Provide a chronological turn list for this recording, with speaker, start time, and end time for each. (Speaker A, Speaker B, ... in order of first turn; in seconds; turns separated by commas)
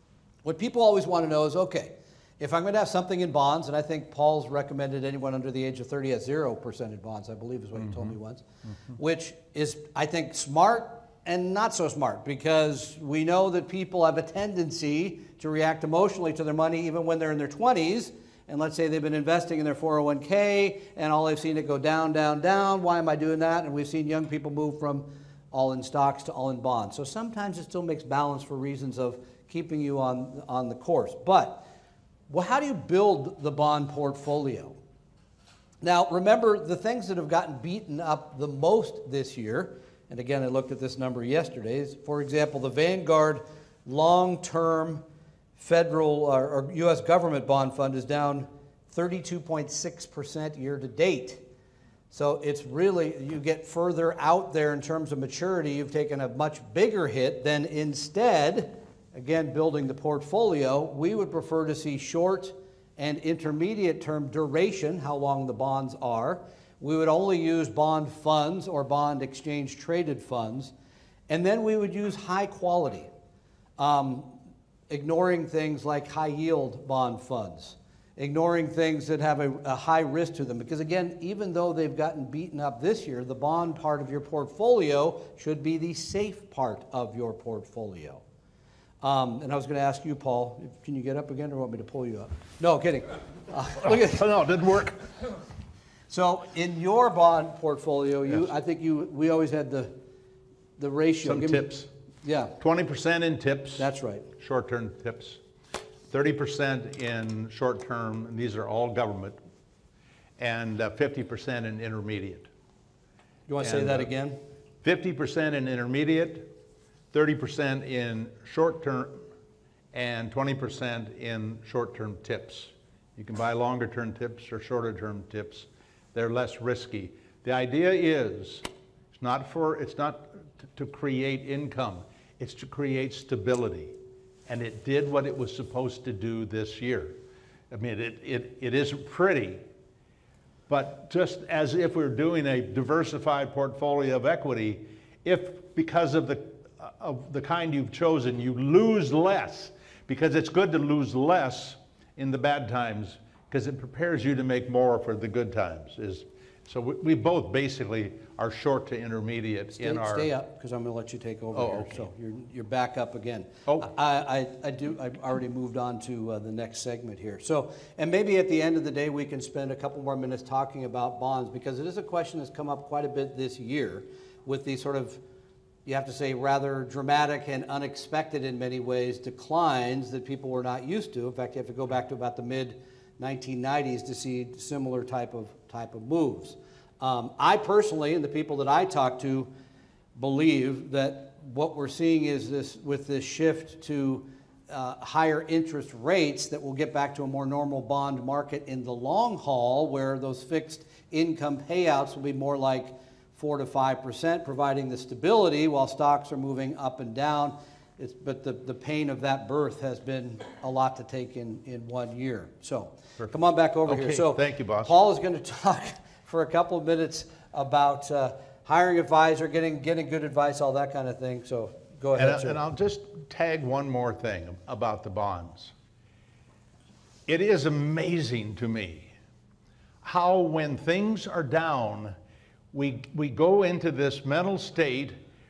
Speaker A: 0.4-31.6, Speaker A: 32.3-34.8, Speaker A: 35.8-45.0, Speaker A: 45.6-51.4, Speaker A: 52.1-70.7, Speaker A: 71.3-73.1, Speaker A: 73.8-74.4, Speaker A: 74.9-88.2, Speaker A: 89.0-94.3, Speaker B: 93.8-95.0, Speaker A: 96.1-100.0, Speaker A: 100.8-101.7, Speaker B: 101.2-101.9, Speaker A: 102.2-102.6, Speaker B: 102.6-105.4, Speaker A: 103.8-104.3, Speaker B: 106.1-109.4, Speaker B: 110.4-112.5, Speaker A: 113.5-114.4, Speaker B: 113.6-114.1, Speaker B: 114.8-116.5, Speaker B: 117.1-119.2, Speaker B: 119.9-128.6, Speaker B: 129.2-133.9, Speaker B: 134.5-137.2, Speaker B: 137.7-139.6, Speaker B: 140.7-160.3, Speaker A: 159.8-175.2, Speaker B: 161.5-162.1, Speaker A: 175.8-189.5, Speaker A: 190.1-222.6, Speaker B: 213.8-214.9, Speaker B: 222.2-225.7, Speaker B: 227.3-229.1, Speaker B: 230.0-232.1, Speaker B: 232.7-235.2